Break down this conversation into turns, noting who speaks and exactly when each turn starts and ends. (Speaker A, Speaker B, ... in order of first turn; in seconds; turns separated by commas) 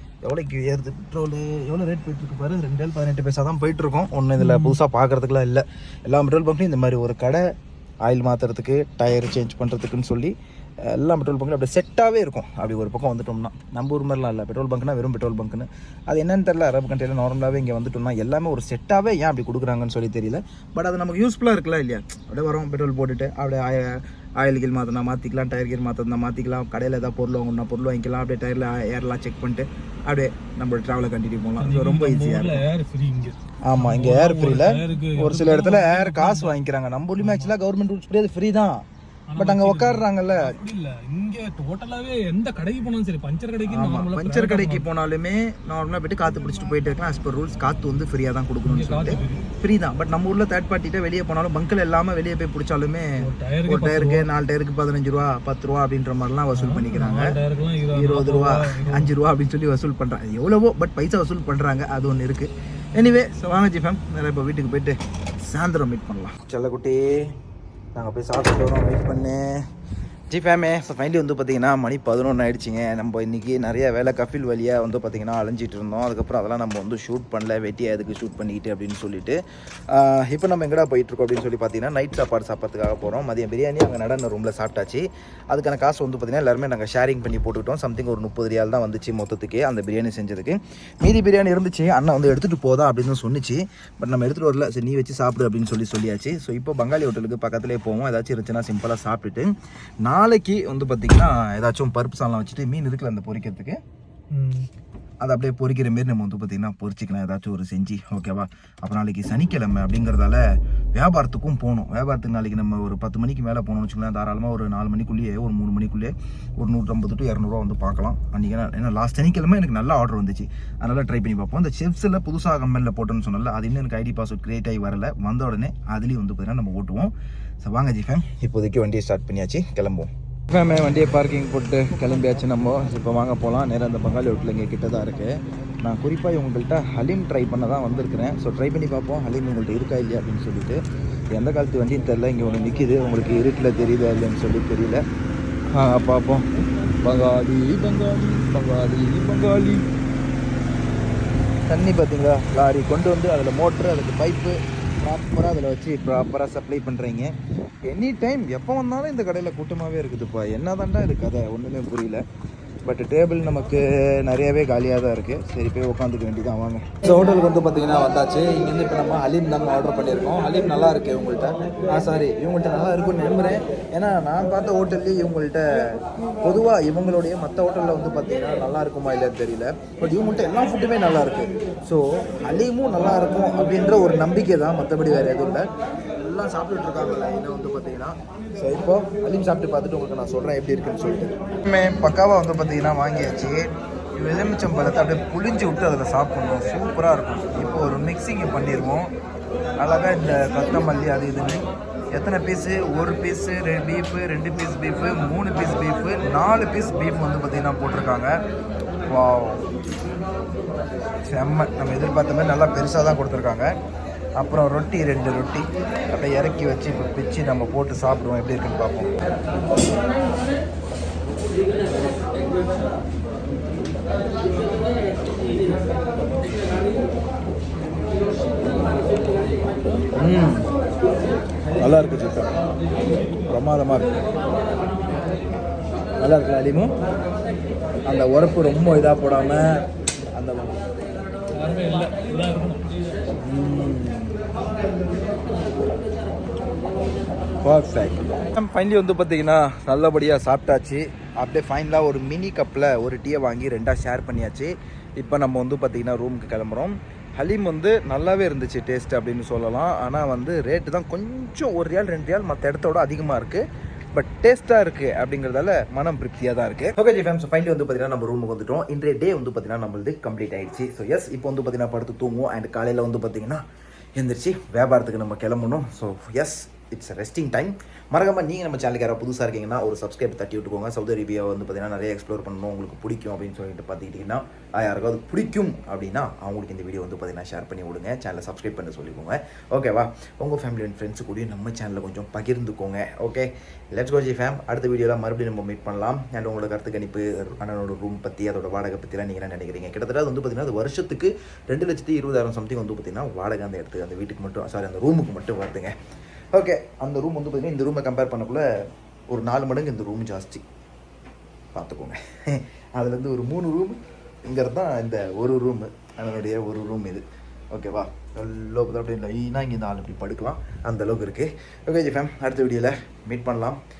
Speaker A: 0.2-7.4, Speaker B: 4.4-4.8, Speaker A: 8.0-32.6, Speaker B: 31.6-36.5, Speaker A: 33.6-38.8, Speaker B: 37.2-37.5, Speaker B: 39.3-44.9, Speaker A: 39.4-40.6, Speaker A: 43.6-57.3, Speaker B: 48.6-49.5, Speaker B: 53.2-54.3, Speaker B: 56.5-59.1, Speaker A: 57.9-67.3, Speaker A: 67.9-69.6, Speaker A: 70.3-79.4, Speaker A: 79.9-99.5, Speaker A: 100.0-103.8, Speaker B: 104.3-104.7, Speaker A: 105.2-145.0, Speaker A: 145.7-146.5, Speaker A: 147.0-149.8, Speaker A: 151.7-157.3, Speaker A: 157.8-162.2, Speaker A: 162.8-185.6, Speaker A: 186.2-199.1, Speaker A: 199.8-208.3, Speaker A: 209.1-209.7, Speaker A: 211.3-213.7, Speaker A: 214.4-219.1, Speaker A: 230.2-230.7, Speaker A: 231.8-232.5, Speaker A: 233.4-234.2, Speaker A: 236.2-236.9, Speaker A: 238.1-239.8, Speaker A: 240.3-240.8, Speaker B: 241.5-242.9, Speaker A: 243.4-244.4, Speaker A: 247.6-263.6, Speaker A: 264.1-273.6, Speaker A: 274.1-305.9, Speaker A: 306.5-308.7, Speaker A: 309.3-310.6, Speaker A: 311.7-323.8